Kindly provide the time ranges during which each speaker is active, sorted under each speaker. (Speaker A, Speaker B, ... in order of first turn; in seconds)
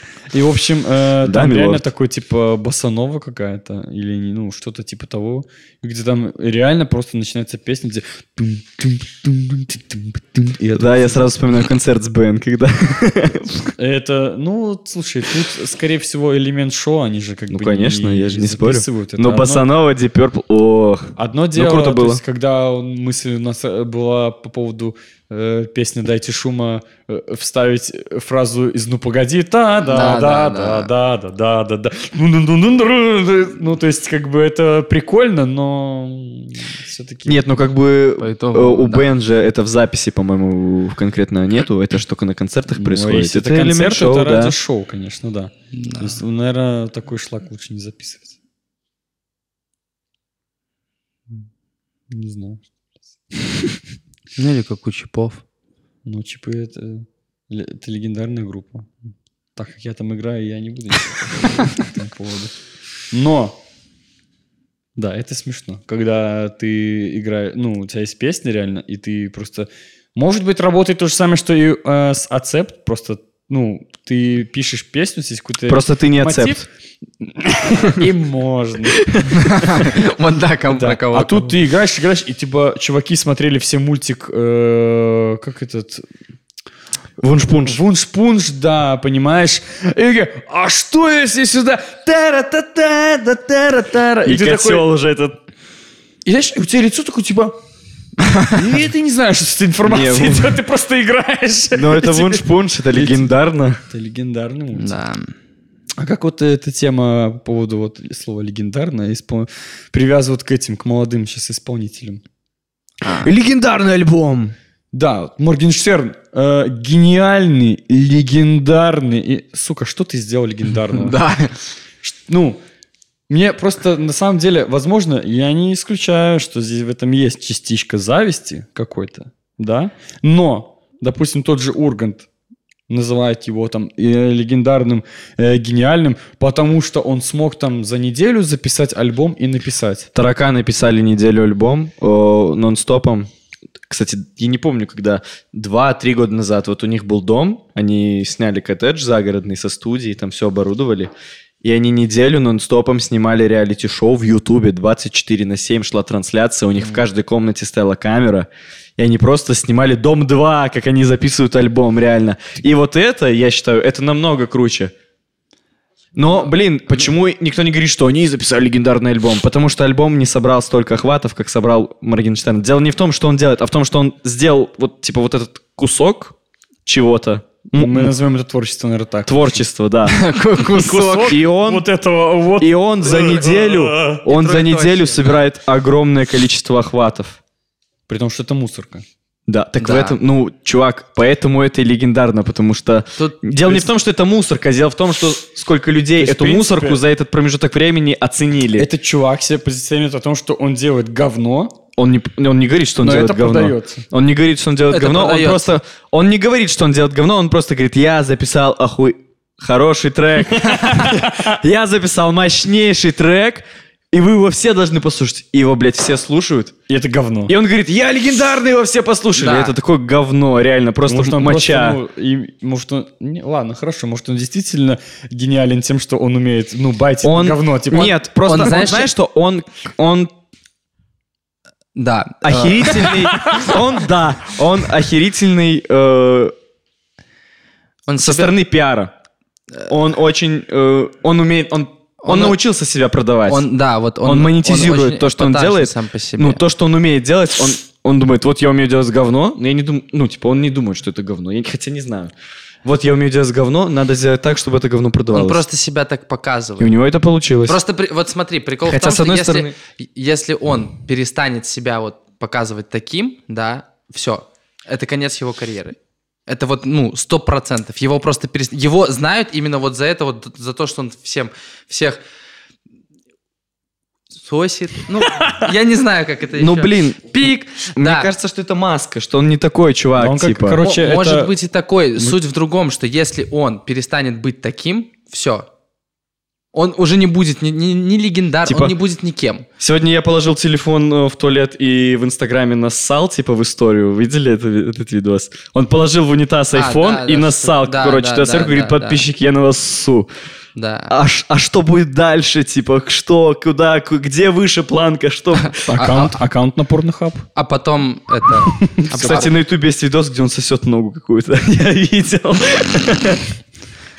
Speaker A: 0.3-11.3, 13.8-19.6, 21.2-37.6, 42.7-48.3, 52.1-52.6, 56.0-58.9, 59.5-62.5, 63.1-63.6, 65.0-76.7, 77.2-79.1, 80.7-86.0, 87.6-94.9, 96.2-97.6, 98.5-103.3, 103.8-105.0, 106.0-112.2, 114.9-121.2, 122.0-122.6, 123.3-132.3, 132.9-140.1, 177.8-179.6, 180.7-184.2, 188.1-189.0, 193.6-193.9, 196.2-197.0, 198.8-201.8, 203.0-204.0, 210.6-211.6, 216.9-217.5, 221.1-228.1, 280.1-281.5, 305.9-307.5, 308.8-309.5
Speaker B: 1.2-1.8, 10.8-13.7, 17.5-22.2, 37.2-44.5, 75.7-76.7, 87.2-87.8, 94.2-95.4, 99.8-100.6, 101.7-103.8, 113.1-114.5, 140.1-143.3, 143.9-151.1, 151.6-164.9, 166.1-176.3, 176.8-178.1, 179.2-180.2, 180.8-181.9, 182.6-187.4, 189.5-198.9, 202.0-216.8, 217.5-222.0, 227.2-230.3, 232.4-236.5, 238.2-239.1, 239.9-243.7, 244.2-252.3, 252.8-255.6, 256.8-257.8, 258.8-259.7, 276.6-280.8, 288.6-288.9, 289.8-300.3, 301.1-306.0, 309.1-313.4
Speaker C: 29.8-30.9, 38.2-39.1, 45.7-46.2, 54.4-55.4, 79.3-81.5, 104.7-105.3, 113.0-113.3, 120.9-121.6, 180.0-181.3, 184.2-185.4, 189.8-190.2, 204.9-205.7, 219.3-219.7, 227.9-229.1, 231.9-233.5, 238.1-238.5, 242.2-242.6, 243.5-246.6, 255.3-256.9, 257.6-272.2, 274.3-278.3, 280.8-285.6, 286.7-289.6, 296.7-299.2, 300.8-301.1, 305.6-306.4, 307.5-309.5